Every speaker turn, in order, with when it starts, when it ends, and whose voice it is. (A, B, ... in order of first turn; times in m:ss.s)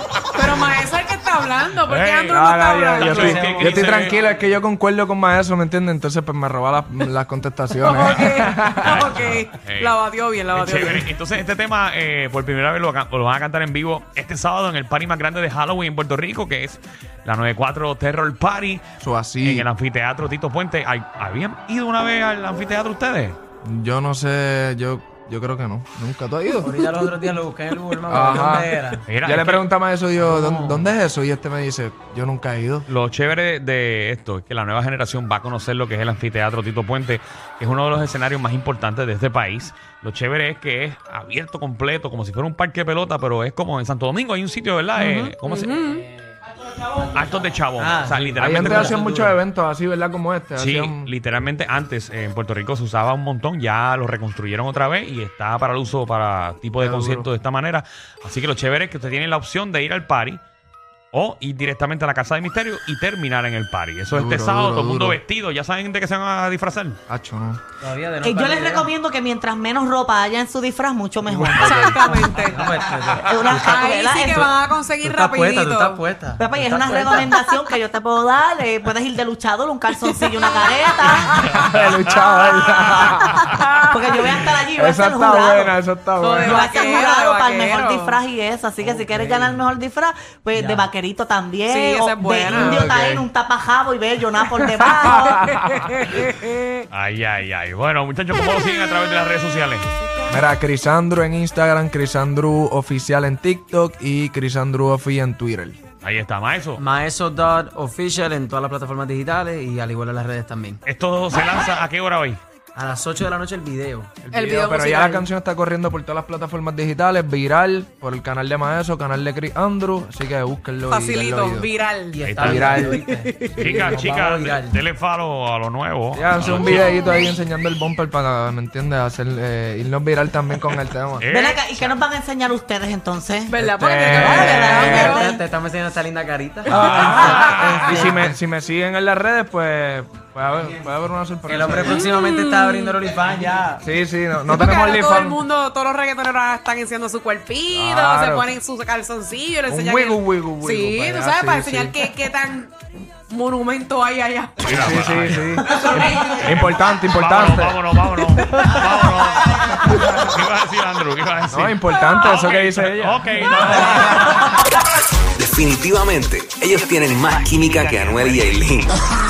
0:00.3-0:03.4 A
0:01.8-0:04.2 B
0:02.3-0:09.2 C
0:02.9-0:04.4 D
0:07.8-0:11.1 A
0:08.8-0:10.0 B
0:10.5-0:18.8 B
0:19.0-0:19.7 C
0:19.4-0:23.4 B
0:23.6-0:26.9 C
0:26.6-0:29.0 D
0:28.1-0:32.9 C
0:29.1-0:29.7 B
0:30.2-0:30.9 D
0:32.9-0:46.0 B
0:45.0-0:46.0 A
0:46.8-0:49.0 B
0:47.8-0:49.3 D
0:48.4-0:51.1 C
0:50.6-1:00.4 B
0:56.8-0:57.3 C
1:01.1-1:07.0 B
1:04.1-1:05.2 C
1:07.1-1:07.6 C
1:07.8-1:08.9 D
1:08.2-1:12.2 E
1:11.2-1:12.2 C
1:11.6-1:12.7 A
1:12.1-1:14.5 D
1:13.1-1:14.5 E
1:13.5-1:16.0 A
1:15.0-1:17.3 D
1:16.4-1:25.7 E
1:20.1-1:20.8 A
1:21.4-1:23.6 C
1:21.6-1:22.3 B
1:24.8-1:26.7 C
1:26.2-1:28.2 A
1:26.4-1:35.4 E
1:28.8-1:29.7 D
1:30.5-1:30.9 D
1:31.6-1:32.9 A
1:32.5-1:33.2 C
1:34.4-1:36.8 A
1:35.1-1:35.8 C
1:36.9-1:39.9 B
1:40.3-1:45.8 C
1:46.0-1:46.8 B
1:46.8-1:50.8 D
1:50.8-1:52.4 B
1:52.7-1:54.2 D
1:54.2-2:01.7 C
1:54.3-1:55.2 A
2:00.9-2:04.0 A
2:02.1-2:04.8 D
2:02.2-2:02.8 B
2:02.4-2:03.0 C
2:03.6-2:06.9 B
2:06.1-2:11.2 C
2:06.8-2:07.1 A
2:11.2-2:12.0 B
2:11.3-2:13.6 E
2:13.5-2:15.2 A
2:13.6-2:15.2 C
2:14.1-2:15.4 E
2:15.0-2:18.3 D
2:16.6-2:22.1 C
2:16.8-2:17.9 A
2:16.9-2:18.0 B
2:21.5-2:23.8 D
2:21.8-2:23.0 A
2:23.8-2:25.4 C
2:24.5-2:32.7 A
2:27.7-2:28.5 C
2:29.7-2:32.1 C
2:33.3-2:34.7 A
2:34.6-2:38.6 C
2:34.6-2:44.5 B
2:39.9-2:40.2 C
2:41.5-2:44.3 C
2:45.4-2:49.0 F